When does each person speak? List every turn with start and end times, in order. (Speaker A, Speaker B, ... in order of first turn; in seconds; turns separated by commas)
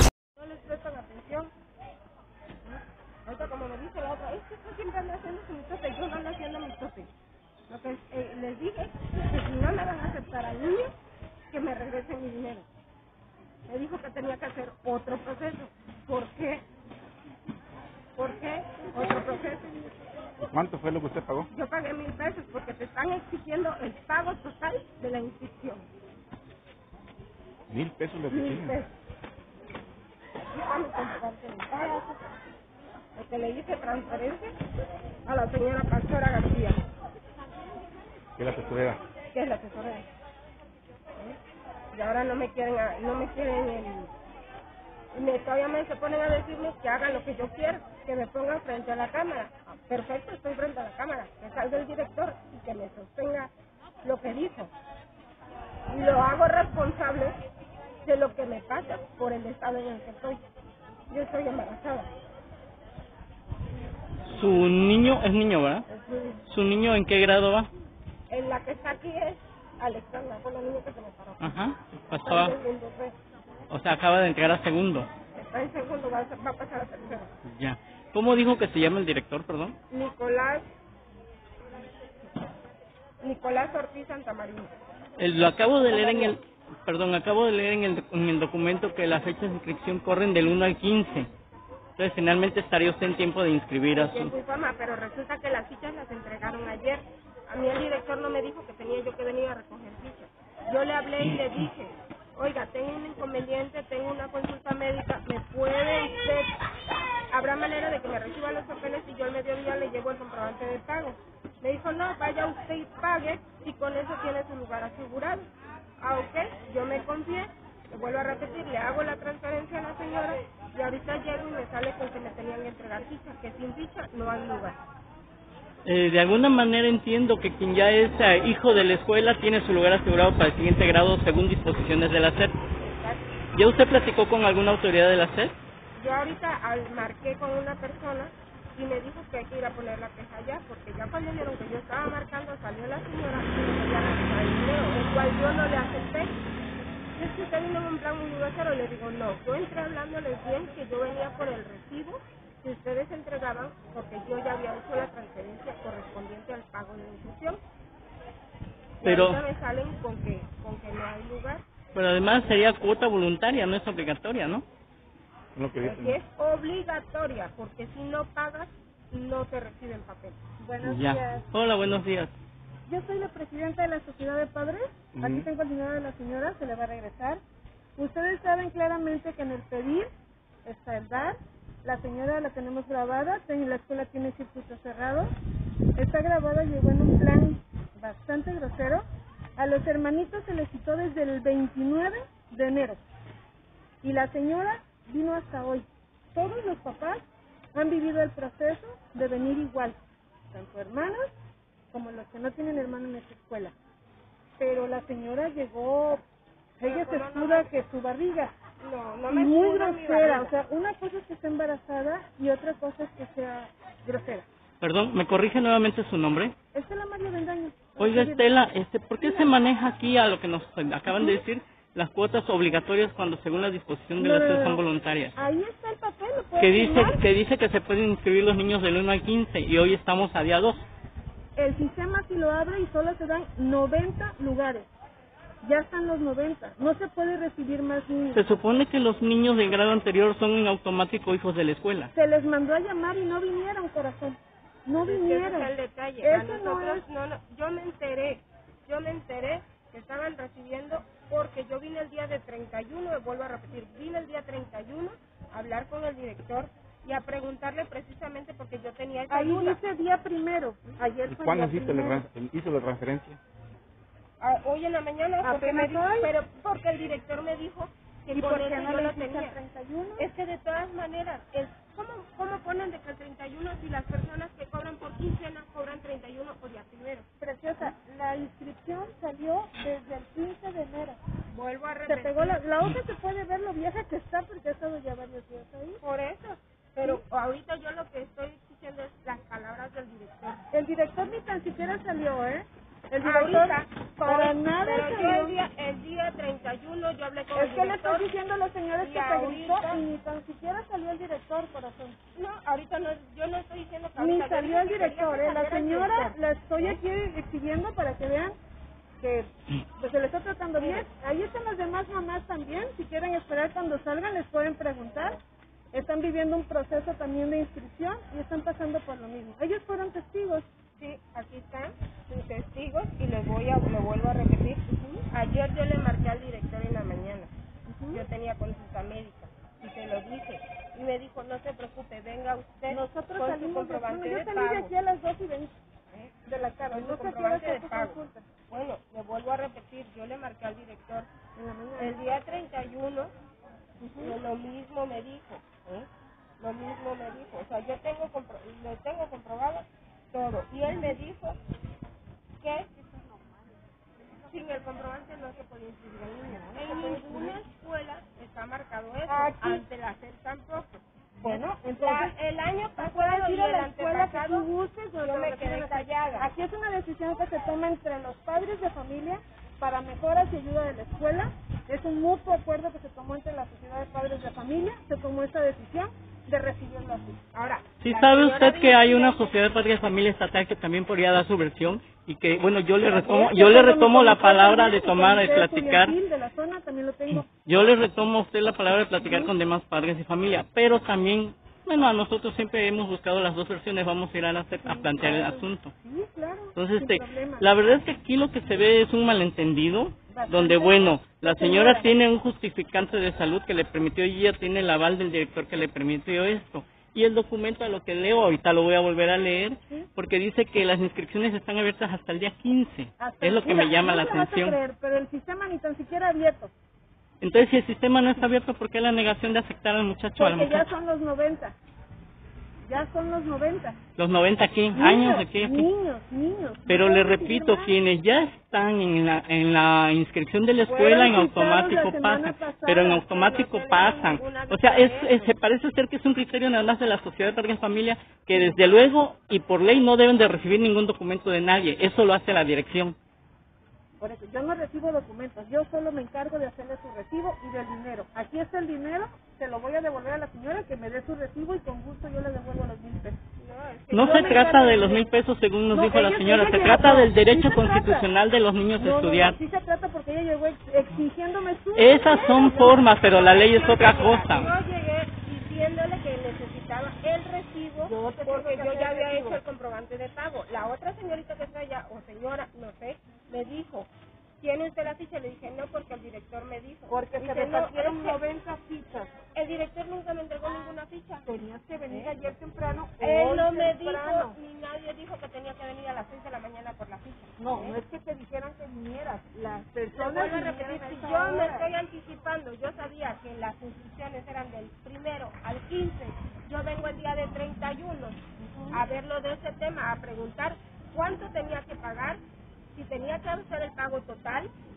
Speaker A: 0.3-1.5, Speaker A: 2.7-7.1, Speaker A: 7.7-10.9, Speaker A: 11.5-12.7, Speaker A: 13.7-16.6, Speaker A: 18.2-19.8, Speaker B: 20.5-21.5, Speaker A: 21.5-25.9, Speaker B: 27.7-28.8, Speaker A: 28.3-28.9, Speaker A: 30.5-32.1, Speaker A: 33.1-34.5, Speaker A: 35.2-36.8, Speaker B: 38.4-39.0, Speaker A: 39.3-40.1, Speaker A: 41.9-44.1, Speaker A: 45.1-53.5, Speaker A: 54.0-54.7, Speaker A: 55.9-57.4, Speaker A: 58.0-60.4, Speaker A: 61.1-62.1, Speaker C: 64.3-65.8, Speaker A: 65.9-66.4, Speaker C: 66.5-67.7, Speaker A: 68.3-71.4, Speaker C: 71.4-72.6, Speaker A: 72.2-73.1, Speaker C: 73.7-75.1, Speaker A: 75.3-77.3, Speaker C: 77.5-79.8, Speaker A: 79.9-80.7, Speaker A: 83.2-84.7, Speaker C: 85.2-91.3, Speaker A: 85.8-86.3, Speaker C: 92.0-94.3, Speaker A: 93.9-106.5, Speaker A: 107.3-115.5, Speaker A: 116.0-124.8, Speaker C: 125.8-132.6, Speaker A: 132.7-133.2, Speaker C: 133.5-135.6, Speaker A: 135.9-146.3, Speaker A: 147.2-157.6, Speaker A: 159.0-161.6, Speaker C: 159.0-159.4, Speaker C: 161.9-164.6, Speaker B: 165.5-166.2, Speaker A: 165.8-170.4, Speaker D: 170.6-171.4, Speaker C: 170.8-172.3, Speaker D: 172.9-177.4, Speaker B: 175.1-175.5, Speaker D: 178.0-180.1, Speaker D: 180.6-185.3, Speaker D: 185.9-189.0, Speaker D: 189.6-193.0, Speaker D: 194.0-200.0, Speaker D: 200.5-201.3, Speaker D: 201.9-203.7, Speaker D: 204.6-206.2, Speaker D: 206.8-208.5, Speaker A: 206.8-207.7, Speaker A: 208.8-210.5, Speaker D: 209.3-214.4, Speaker C: 214.8-216.5, Speaker D: 216.7-218.5, Speaker C: 218.0-225.3, Speaker D: 219.2-219.5, Speaker D: 221.1-221.4, Speaker D: 224.2-227.2, Speaker C: 226.6-230.8, Speaker D: 231.6-234.9, Speaker D: 235.6-238.4, Speaker C: 238.3-242.1, Speaker D: 242.1-247.0, Speaker A: 245.1-259.8, Speaker D: 259.3-262.3, Speaker B: 261.2-263.4, Speaker A: 264.4-269.6, Speaker D: 265.4-266.3, Speaker D: 268.3-270.2, Speaker A: 270.2-277.2, Speaker D: 277.4-281.2, Speaker A: 281.5-282.6, Speaker D: 282.1-286.0, Speaker A: 286.0-290.6, Speaker D: 290.7-295.6, Speaker A: 293.2-298.3, Speaker D: 297.5-302.2, Speaker A: 299.0-300.0, Speaker A: 302.3-307.0, Speaker D: 304.1-308.6, Speaker D: 309.2-315.4, Speaker A: 310.8-311.1, Speaker D: 315.9-320.7, Speaker A: 321.0-327.5, Speaker D: 324.9-325.2, Speaker D: 327.9-328.2, Speaker A: 328.1-334.9, Speaker D: 332.9-335.7, Speaker D: 336.4-338.4, Speaker A: 336.9-341.3, Speaker D: 341.5-342.1, Speaker A: 342.0-343.3, Speaker D: 344.0-344.4, Speaker A: 344.2-346.1, Speaker A: 346.6-351.6, Speaker D: 350.8-351.2, Speaker A: 352.6-352.9, Speaker A: 354.5-364.7, Speaker D: 356.4-357.6, Speaker D: 359.3-359.8, Speaker D: 361.4-362.3, Speaker D: 363.0-377.4, Speaker A: 365.2-366.5, Speaker A: 377.5-379.6, Speaker C: 378.0-386.2, Speaker D: 383.1-387.6, Speaker C: 387.4-395.9, Speaker D: 389.2-389.5, Speaker D: 394.8-397.7, Speaker C: 396.7-414.8, Speaker D: 400.3-402.1, Speaker D: 409.8-410.1, Speaker D: 413.2-416.7, Speaker C: 417.4-420.9, Speaker D: 420.4-421.7, Speaker D: 422.9-424.0, Speaker C: 424.2-425.9, Speaker D: 424.9-427.9, Speaker C: 426.9-443.1, Speaker D: 430.9-433.7, Speaker A: 433.5-435.5, Speaker D: 444.2-453.4, Speaker A: 453.6-454.9, Speaker C: 454.1-459.6, Speaker D: 454.2-455.2, Speaker D: 455.9-458.3, Speaker D: 459.0-463.0, Speaker C: 461.9-464.7, Speaker A: 462.3-474.1, Speaker D: 468.0-469.6, Speaker A: 474.6-478.4, Speaker D: 477.1-479.3, Speaker A: 479.5-481.5, Speaker D: 481.4-484.6, Speaker A: 482.1-482.4, Speaker A: 483.2-488.0, Speaker D: 487.6-491.9, Speaker A: 490.1-498.4, Speaker D: 498.6-499.0, Speaker A: 498.9-502.4, Speaker A: 502.9-504.7